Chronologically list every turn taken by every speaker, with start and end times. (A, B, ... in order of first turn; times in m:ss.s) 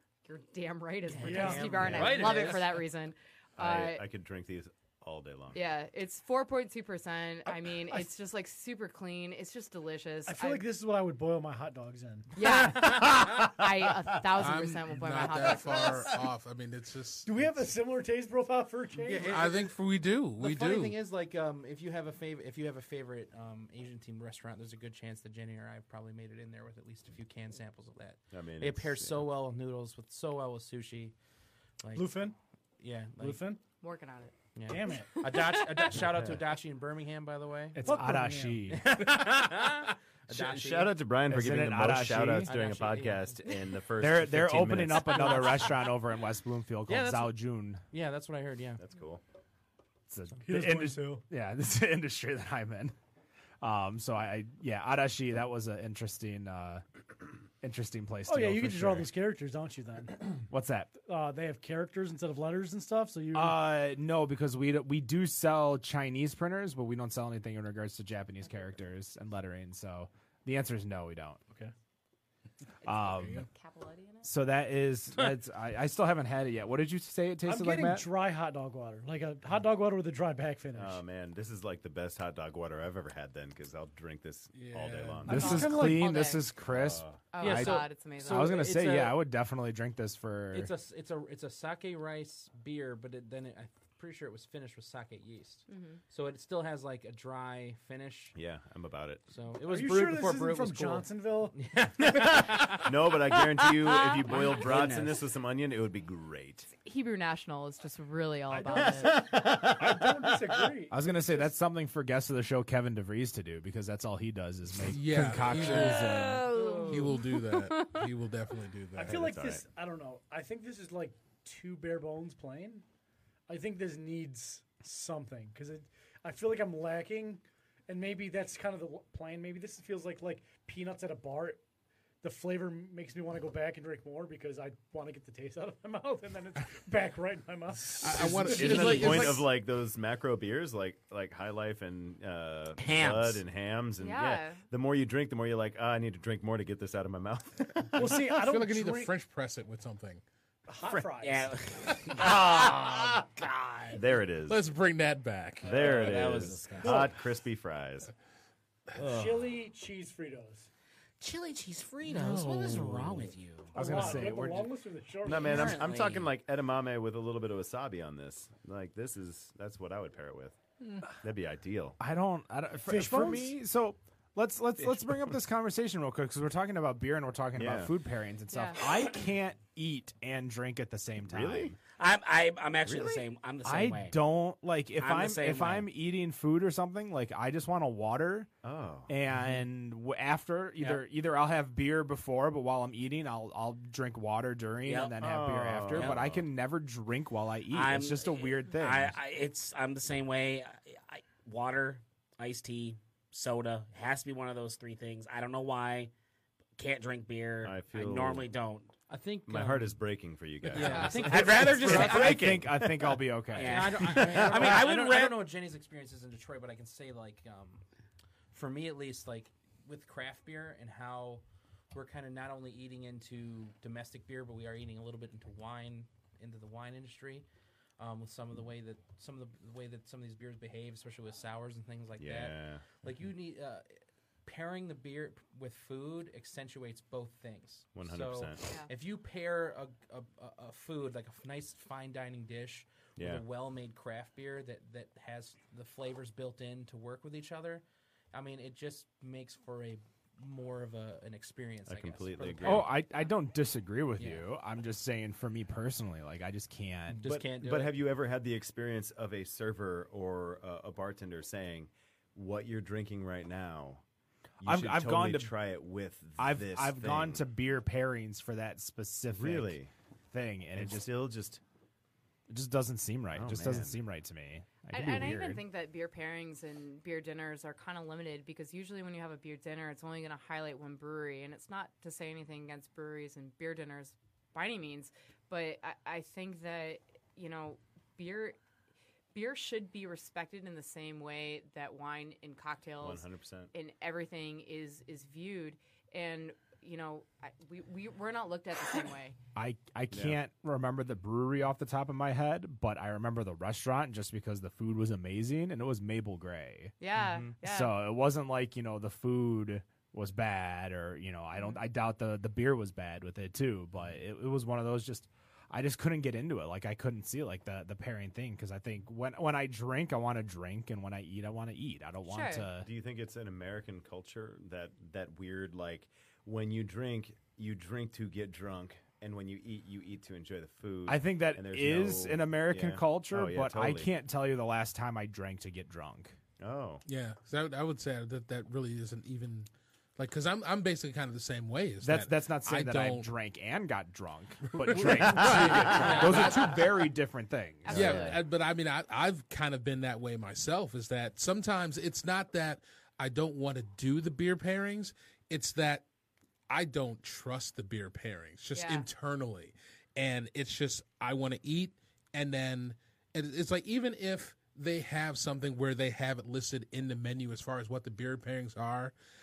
0:00.2-0:04.0 A
0:01.1-0:02.9 B
0:01.2-0:01.8 C
0:01.8-0:02.6 D
0:03.6-0:05.6 D
0:05.5-0:10.6 A
0:10.3-0:12.3 C
0:12.3-0:16.2 A
0:14.4-0:17.4 E
0:17.3-0:19.4 C
0:19.0-0:19.8 B
0:19.2-0:21.0 E
0:20.4-0:31.1 B
0:28.3-0:29.3 D
0:31.8-0:32.1 B
0:32.0-0:32.4 C
0:32.8-0:33.4 B
0:33.2-0:33.6 C
0:33.8-0:34.3 A
0:34.6-0:38.0 B
0:34.7-0:35.2 C
0:34.9-0:36.0 A
0:37.7-0:38.7 C
0:37.9-0:38.8 F
0:38.7-0:41.0 B
0:40.3-0:45.4 D
0:41.3-0:42.5 F
0:42.4-0:43.3 B
0:44.0-0:47.8 F
0:45.0-0:45.7 A
0:46.9-0:47.4 B
0:47.9-0:48.8 B
0:48.8-0:49.2 D
0:50.1-0:53.0 F
0:50.4-0:51.2 C
0:53.6-0:56.8 F
0:57.6-0:59.1 F
0:58.3-1:00.1 C
1:00.5-1:00.9 F
1:01.0-1:03.7 C
1:03.3-1:11.4 F
1:12.8-1:13.4 F
1:12.9-1:14.3 A
1:14.2-1:18.1 F
1:17.4-1:21.0 C
1:20.7-1:25.6 D
1:24.5-1:25.3 E
1:25.3-1:26.5 A
1:25.3-1:30.7 F
1:25.3-1:26.0 C
1:26.7-1:27.3 D
1:27.3-1:28.6 A
1:27.4-1:29.2 B
1:30.5-1:38.3 B
1:35.7-1:36.0 A
1:38.3-1:39.2 D
1:39.3-1:42.8 B
1:39.6-1:41.6 C
1:42.0-1:46.7 D
1:43.8-1:44.6 A
1:44.3-1:45.2 G
1:46.7-1:49.3 A
1:48.5-1:51.3 C
1:48.7-1:50.4 D
1:50.9-1:56.4 F
1:54.9-1:59.2 E
1:55.5-1:58.1 A
1:59.0-2:02.8 C
1:59.0-1:59.6 D
2:03.5-2:11.6 C
2:12.2-2:19.3 C
2:17.9-2:19.5 E
2:18.1-2:28.1 D
2:22.8-2:23.4 G
2:24.0-2:24.6 A
2:28.0-2:29.1 C
2:28.1-2:30.2 E
2:30.7-2:31.5 C
2:31.2-2:34.0 G
2:33.9-2:34.6 D
2:34.5-2:35.7 E
2:35.6-2:38.1 D
2:35.6-2:37.1 G
2:35.9-2:36.6 F
2:36.8-2:37.1 C
2:39.0-2:39.3 G
2:39.0-2:40.7 C
2:41.2-2:44.2 G
2:42.1-2:42.8 E
2:42.9-2:43.2 F
2:43.7-2:44.7 F
2:43.7-2:45.8 C
2:45.2-2:50.6 D
2:45.3-2:46.3 G
2:51.2-2:52.0 D
2:52.0-3:01.7 F
2:52.8-2:53.6 C
2:57.6-2:57.9 D
2:58.5-2:58.8 A
3:01.2-3:01.8 D
3:02.0-3:04.2 G
3:02.9-3:03.2 D
3:03.6-3:08.5 F
3:05.0-3:05.9 G
3:08.6-3:09.1 D
3:09.1-3:19.2 F
3:10.8-3:11.0 B
3:14.8-3:15.2 G
3:15.2-3:16.4 D
3:17.7-3:26.1 G
3:26.8-3:28.9 G
3:27.6-3:28.5 D
3:29.1-3:30.0 B
3:29.4-3:33.2 D
3:30.7-3:32.6 B
3:30.8-3:31.2 A
3:31.3-3:32.4 G
3:31.3-3:34.1 F
3:33.6-3:35.4 G
3:33.6-3:37.8 B
3:34.0-3:34.9 D
3:38.5-3:47.4 B
3:48.0-3:53.9 B
3:52.2-3:53.0 D
3:54.4-4:13.0 B
3:57.9-3:58.6 D
3:58.6-3:58.9 A
4:03.2-4:03.4 D
4:11.9-4:12.9 D
4:12.6-4:17.4 F
4:14.2-4:14.4 B
4:17.1-4:18.0 B
4:17.2-4:24.0 D
4:24.6-4:27.4 D
4:24.6-4:25.5 F
4:26.4-4:29.8 F
4:29.3-4:29.9 D
4:30.3-4:31.1 F
4:30.7-4:31.6 D
4:32.5-4:35.6 F
4:33.3-4:34.0 D
4:34.9-4:48.6 A
4:49.3-4:59.4 A
4:53.0-4:53.7 D
4:59.6-5:07.0 F
5:00.1-5:00.4 D
5:07.0-5:08.0 A
5:07.2-5:07.6 B
5:07.6-5:22.9 F
5:22.3-5:22.7 A
5:22.8-5:34.1 D
5:31.1-5:36.3 F
5:36.6-5:37.0 D
5:37.0-5:43.3 E
5:42.0-5:48.4 F
5:44.8-5:46.7 E
5:45.0-5:46.3 D
5:46.0-5:46.5 B
5:47.9-5:56.1 E
5:47.9-5:48.2 D
5:56.7-6:09.1 E
5:58.7-5:59.1 A